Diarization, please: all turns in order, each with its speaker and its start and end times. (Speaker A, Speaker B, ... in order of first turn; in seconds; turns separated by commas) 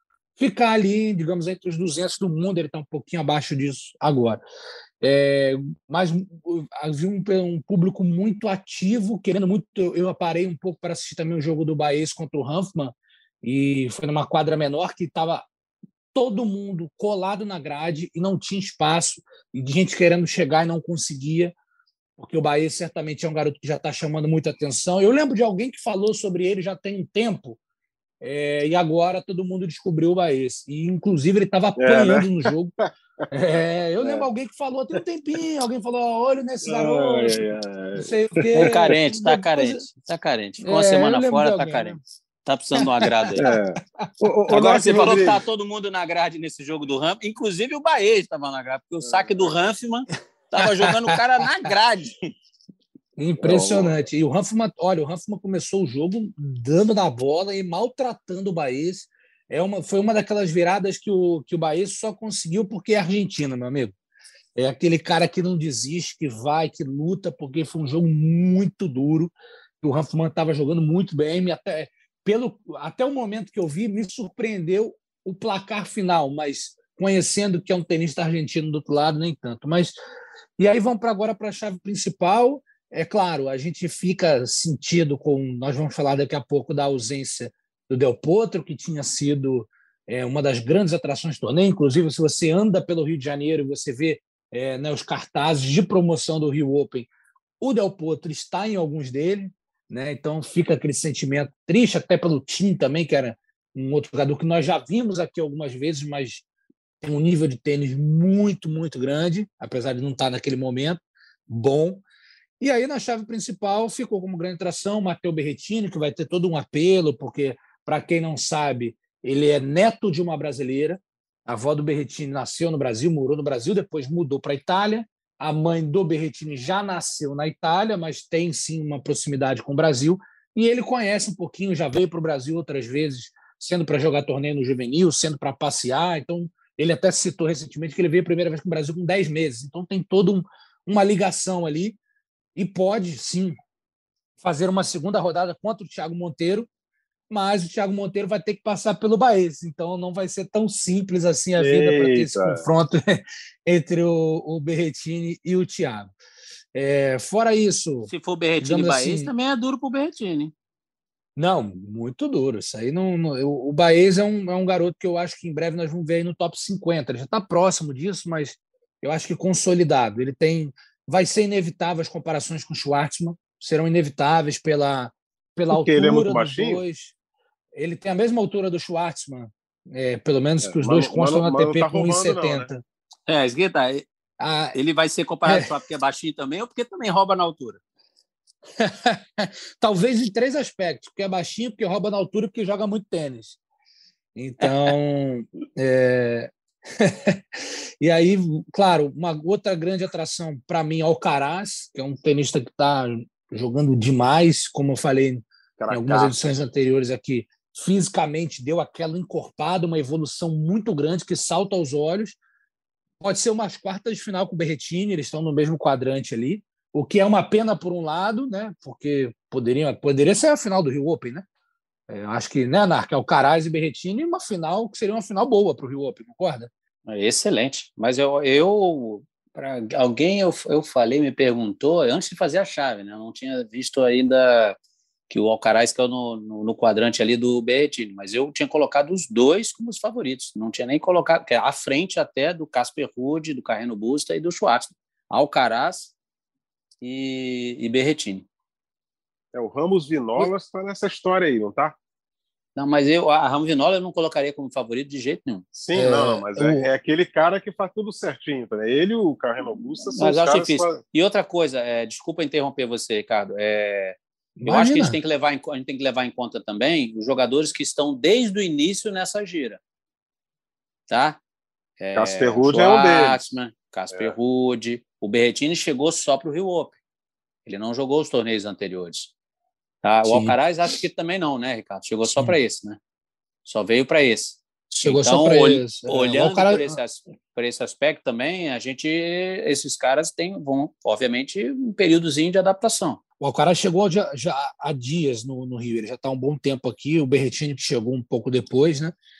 Speaker A: 0.4-4.4, Speaker A: 5.0-15.5, Speaker A: 16.1-21.5, Speaker A: 22.2-27.6, Speaker A: 28.2-32.7, Speaker B: 31.8-32.9, Speaker A: 33.3-39.9, Speaker B: 34.0-34.3, Speaker B: 36.6-38.9, Speaker C: 38.6-43.5, Speaker A: 40.6-42.0, Speaker A: 42.8-43.5, Speaker B: 43.4-45.4, Speaker C: 44.5-52.3, Speaker B: 49.0-49.5, Speaker A: 50.6-51.2, Speaker A: 53.2-63.9, Speaker B: 53.4-54.0, Speaker A: 64.5-79.9, Speaker A: 80.6-97.1, Speaker A: 97.6-106.4, Speaker A: 107.0-112.0, Speaker A: 112.6-142.0, Speaker A: 142.6-143.6, Speaker A: 144.4-146.7, Speaker A: 147.3-156.1, Speaker B: 151.6-152.7, Speaker A: 156.7-159.3, Speaker C: 158.0-160.5, Speaker A: 161.3-177.1, Speaker B: 175.7-176.8, Speaker A: 177.7-182.8, Speaker B: 180.6-182.7, Speaker C: 183.3-184.1, Speaker A: 184.4-184.8, Speaker C: 184.7-187.8, Speaker A: 188.8-193.6, Speaker A: 194.3-212.4, Speaker C: 194.6-194.9, Speaker B: 205.8-206.5, Speaker A: 213.2-221.4, Speaker A: 222.1-226.7, Speaker C: 227.1-234.8, Speaker C: 235.3-246.1, Speaker C: 247.0-248.4, Speaker B: 249.5-251.9, Speaker C: 252.8-255.6, Speaker B: 255.7-261.0, Speaker A: 255.9-256.9, Speaker C: 260.1-269.8, Speaker A: 264.6-265.2, Speaker C: 271.1-271.4, Speaker C: 272.0-277.0, Speaker B: 272.1-273.4, Speaker C: 277.6-279.3, Speaker C: 280.0-283.0, Speaker A: 280.2-280.6, Speaker C: 283.6-293.2, Speaker A: 284.9-287.0, Speaker A: 293.4-299.1